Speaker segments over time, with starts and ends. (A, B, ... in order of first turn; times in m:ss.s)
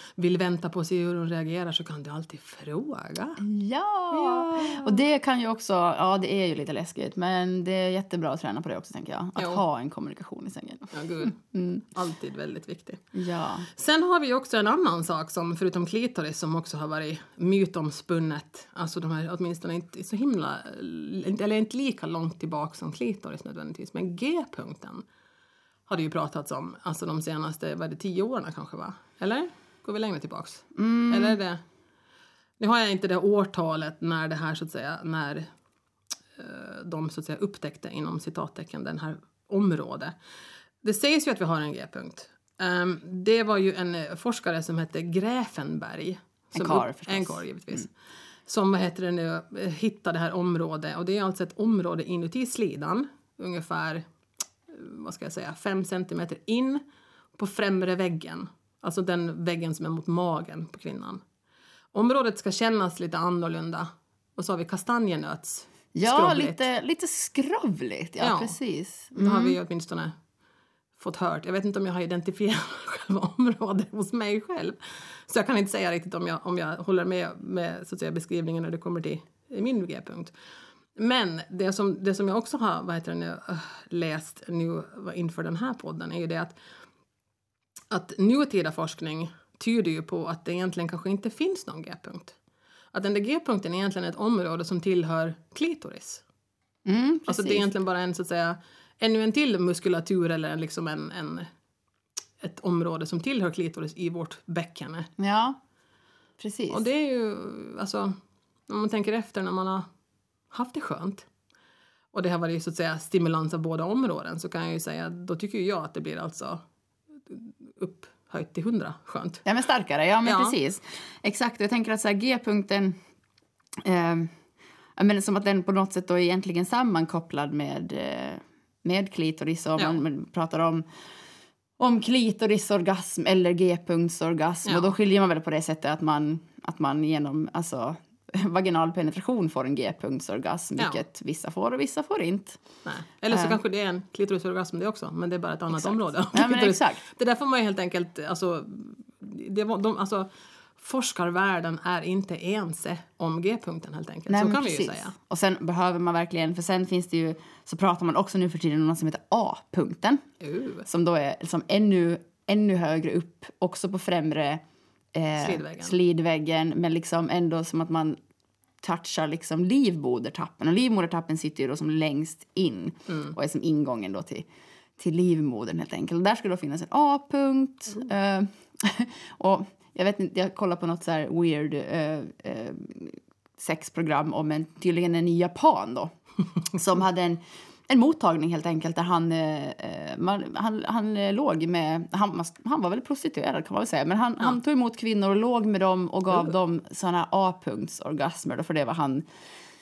0:00.2-0:03.4 A
0:03.4-0:11.8 B
0:04.1-0:05.0 A
0:09.4-0:09.6 A
0:10.9-0:13.0 A
0:13.1-0:13.7 B
0:13.8-0:25.0 A
0:25.9-0:31.6 A
0:30.8-0:31.4 B
0:32.6-0:35.5 A
0:36.4-0:40.2 A
0:40.8-0:47.9 A
0:46.6-0:47.9 B
0:48.5-0:54.1 A
0:54.7-0:56.8 A
0:57.4-1:01.2 A
1:01.9-1:06.6 A
1:06.0-1:09.6 B
1:08.2-1:08.6 A
1:09.2-1:10.2 A
1:11.0-1:20.3 A
1:21.0-1:26.6 A
1:27.9-1:32.4 A
1:32.9-1:36.2 A
1:36.9-1:37.7 B
1:37.3-1:41.5 A
1:42.4-1:45.1 A
1:45.2-1:45.6 B
1:46.4-1:46.8 B
1:46.7-1:48.2 A
1:48.7-1:49.9 A
1:50.5-1:51.3 A
1:52.1-1:56.6 A
1:57.3-1:59.4 A
1:59.4-2:03.0 B
2:00.2-2:00.6 A
2:03.8-2:04.3 B
2:05.0-2:10.8 B
2:09.8-2:10.0 A
2:11.8-2:22.6 B
2:14.7-2:14.9 A
2:22.8-2:35.1 A
2:23.3-2:23.6 B
2:25.7-2:27.0 B
2:34.3-2:40.3 B
2:40.4-2:40.9 A
2:40.9-2:44.6 B
2:45.2-2:48.2 B
2:45.4-2:46.0 A
2:48.8-2:54.5 B
2:55.0-3:06.1 B
3:06.7-3:19.3 B